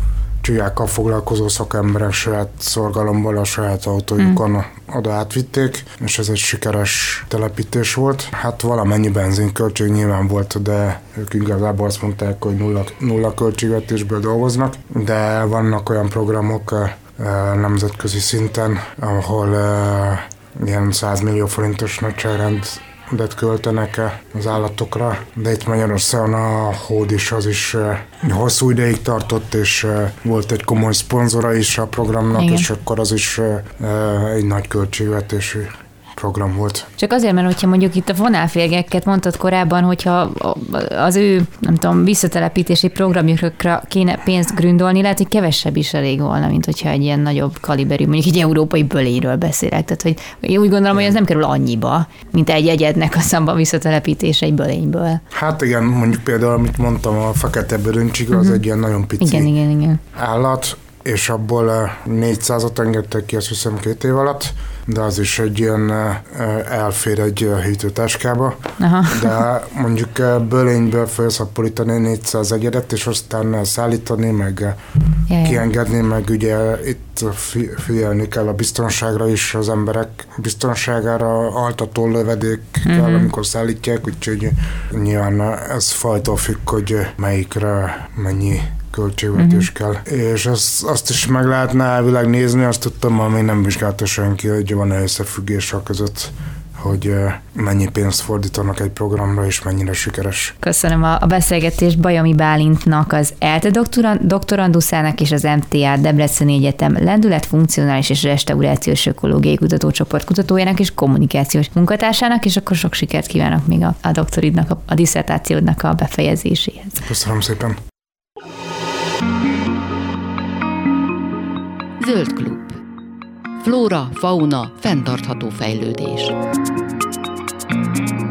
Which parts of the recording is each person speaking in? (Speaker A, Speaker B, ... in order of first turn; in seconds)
Speaker A: 0.4-36.9, 55.3-59.5, 60.1-68.5, 69.1-74.8, 75.4-100.5, 117.0-117.8
Speaker B: 32.3-32.7, 37.0-55.2, 59.2-60.0, 68.8-69.4, 75.3-75.6, 82.8-83.3, 89.4-89.7, 100.6-117.0
Speaker C: 122.0-122.8, 123.6-126.3